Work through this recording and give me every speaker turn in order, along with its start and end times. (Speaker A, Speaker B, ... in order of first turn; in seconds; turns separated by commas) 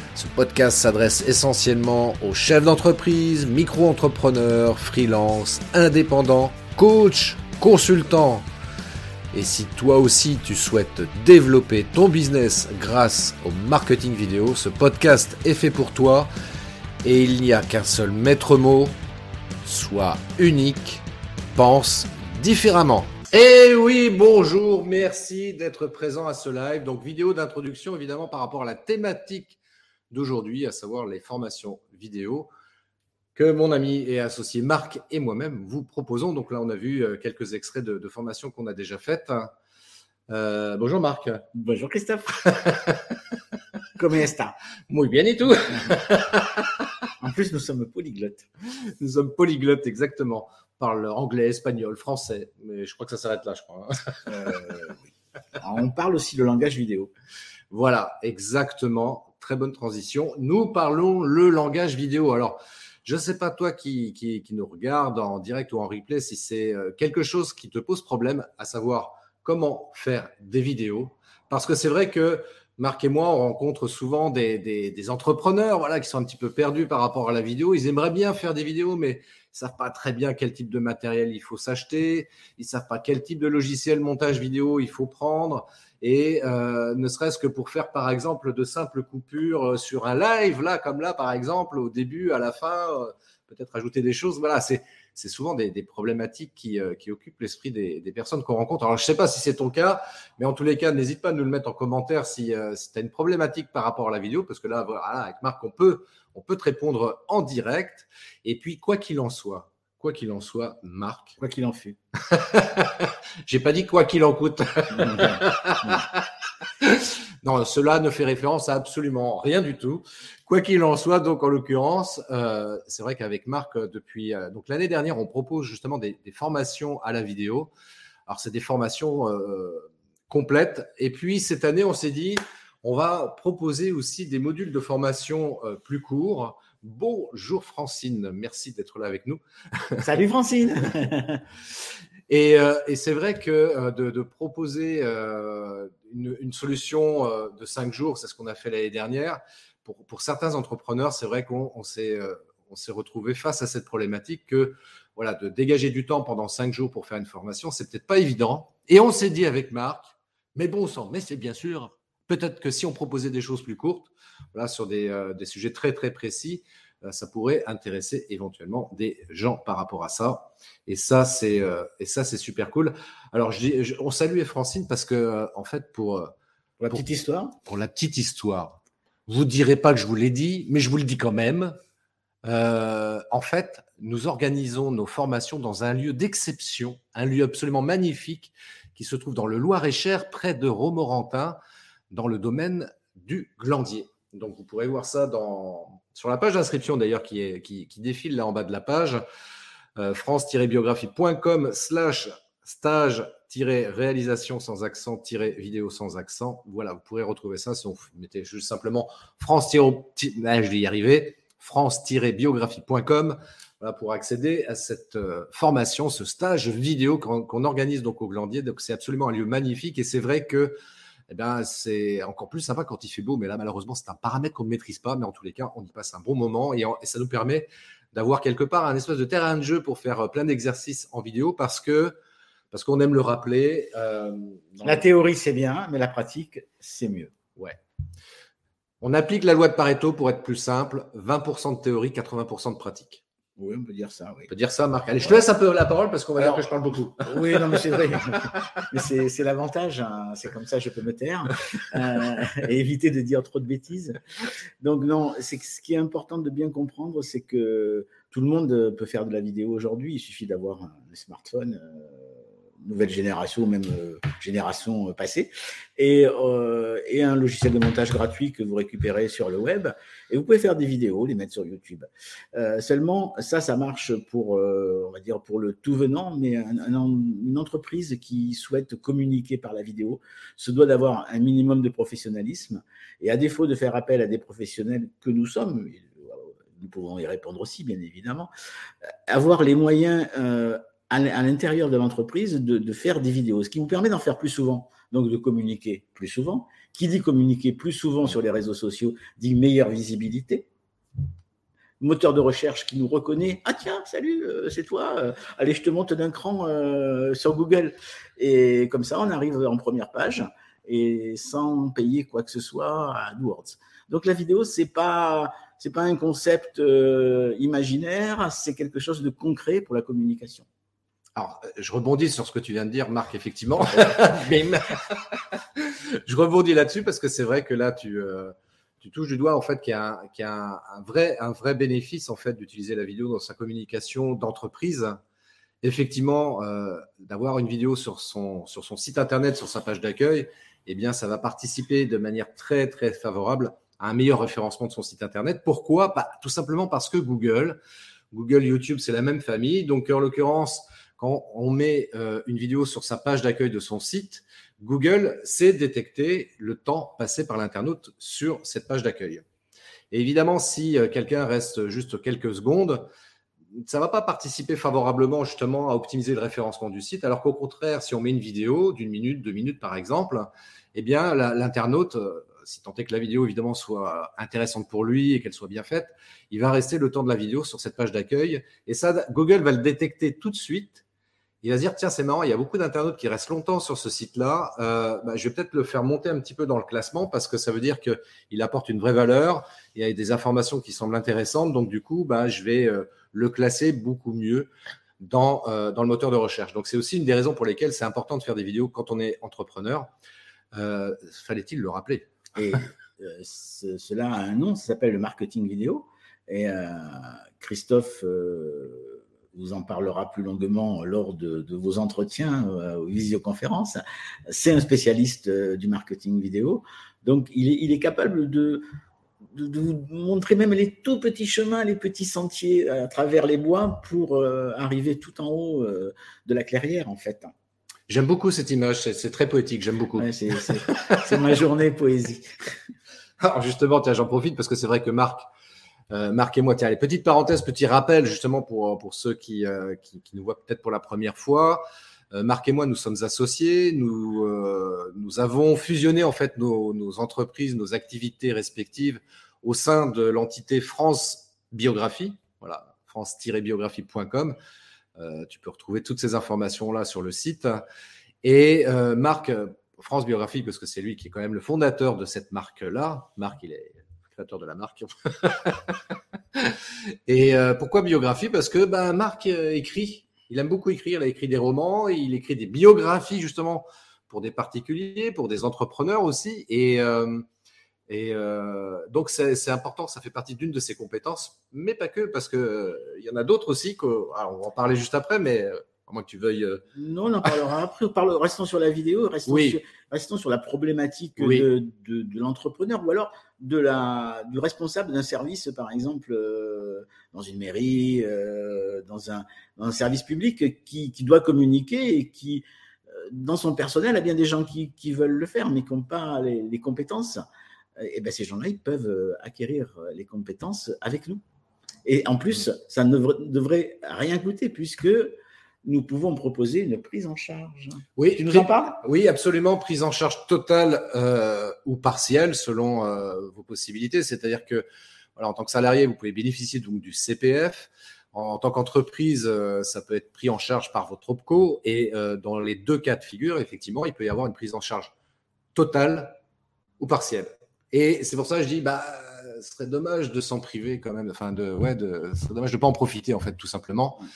Speaker A: 0.1-8.4, Speaker A: 9.3-16.3, Speaker A: 17.0-18.9, Speaker A: 19.6-29.6, Speaker A: 30.1-32.5, Speaker A: 33.3-39.5, Speaker A: 40.3-41.4, Speaker B: 41.5-42.4, Speaker A: 42.5-43.1, Speaker B: 44.0-44.5, Speaker A: 44.9-46.9, Speaker B: 47.2-48.5, Speaker A: 49.0-54.8, Speaker B: 54.2-57.1, Speaker A: 57.7-111.4, Speaker B: 111.4-112.0, Speaker A: 112.3-116.2, Speaker B: 114.9-116.0, Speaker A: 116.8-127.7, Speaker A: 128.3-140.1, Speaker B: 140.0-141.4, Speaker A: 142.3-176.3, Speaker B: 176.8-177.6, Speaker A: 177.6-181.8, Speaker A: 182.4-191.6, Speaker A: 192.1-199.2, Speaker A: 200.0-220.7, Speaker A: 221.3-232.1, Speaker A: 232.7-235.0, Speaker B: 234.8-237.3, Speaker A: 239.0-243.2, Speaker B: 243.6-244.5, Speaker A: 244.5-248.8, Speaker B: 246.4-246.7, Speaker B: 247.2-254.2, Speaker B: 254.8-288.5, Speaker B: 289.3-300.7, Speaker B: 302.0-320.6, Speaker A: 321.4-335.2, Speaker A: 335.8-347.8, Speaker A: 348.3-359.4, Speaker A: 360.1-363.1, Speaker A: 363.8-381.0, Speaker A: 381.6-400.1, Speaker A: 400.7-402.3, Speaker B: 402.5-418.8, Speaker B: 419.5-427.5, Speaker A: 428.1-431.2, Speaker B: 430.2-432.7, Speaker A: 433.4-435.5, Speaker A: 436.1-454.6, Speaker A: 455.2-457.8, Speaker A: 458.4-465.9, Speaker A: 466.5-477.4, Speaker A: 478.1-486.8, Speaker B: 486.9-507.4, Speaker A: 489.4-489.8, Speaker A: 491.4-491.7, Speaker B: 508.0-511.4, Speaker B: 512.0-519.0, Speaker A: 518.2-524.8, Speaker A: 525.4-535.1, Speaker A: 535.7-536.4, Speaker A: 537.0-544.2